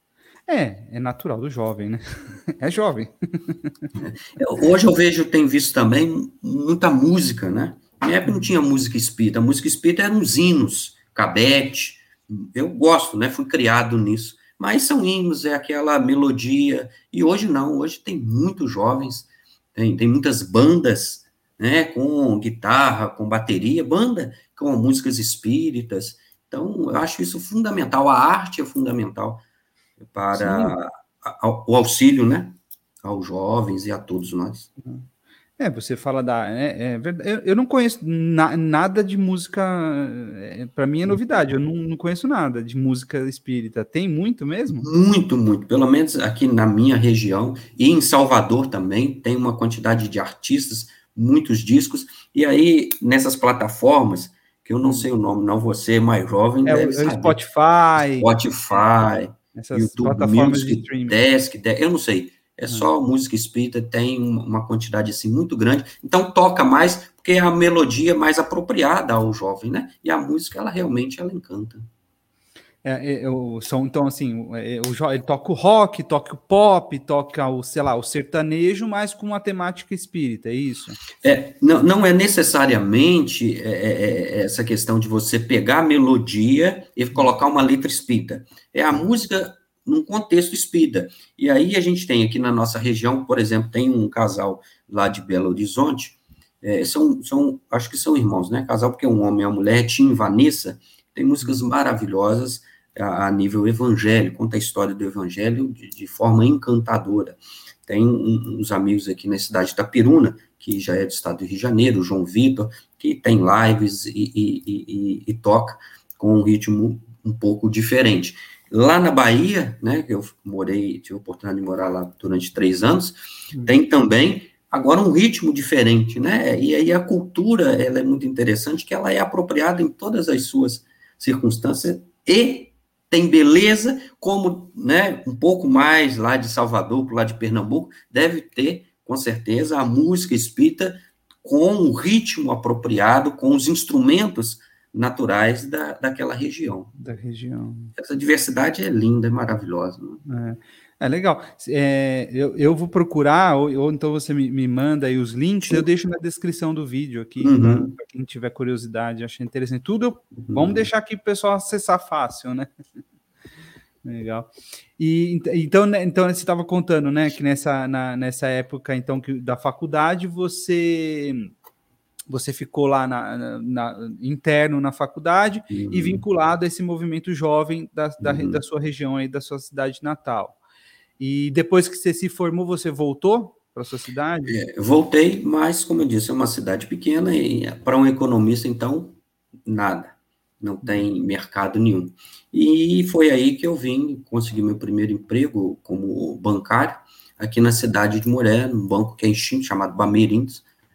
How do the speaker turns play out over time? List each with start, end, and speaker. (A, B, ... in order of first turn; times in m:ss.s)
0:00.5-0:03.9 A
0:04.0-0:29.4 B
0:08.2-0:08.5 A
0:30.0-0:34.7 B
0:30.3-0:30.8 A
0:35.6-0:44.9 A
0:44.7-0:57.4 B
0:56.6-0:58.3 A
0:58.2-1:11.8 B
0:59.5-1:01.2 A
1:12.8-1:21.0 A
1:21.2-2:26.9 B
2:03.5-2:03.8 A
2:27.0-2:27.9 A
2:28.0-2:30.2 B
2:30.2-2:42.7 A
2:37.4-2:37.9 B
2:40.4-2:40.9 B
2:44.0-2:51.5 A
2:52.3-3:00.6 A
2:55.7-2:56.2 B
2:58.2-2:58.6 B
3:01.2-3:04.6 A
3:04.5-3:20.6 B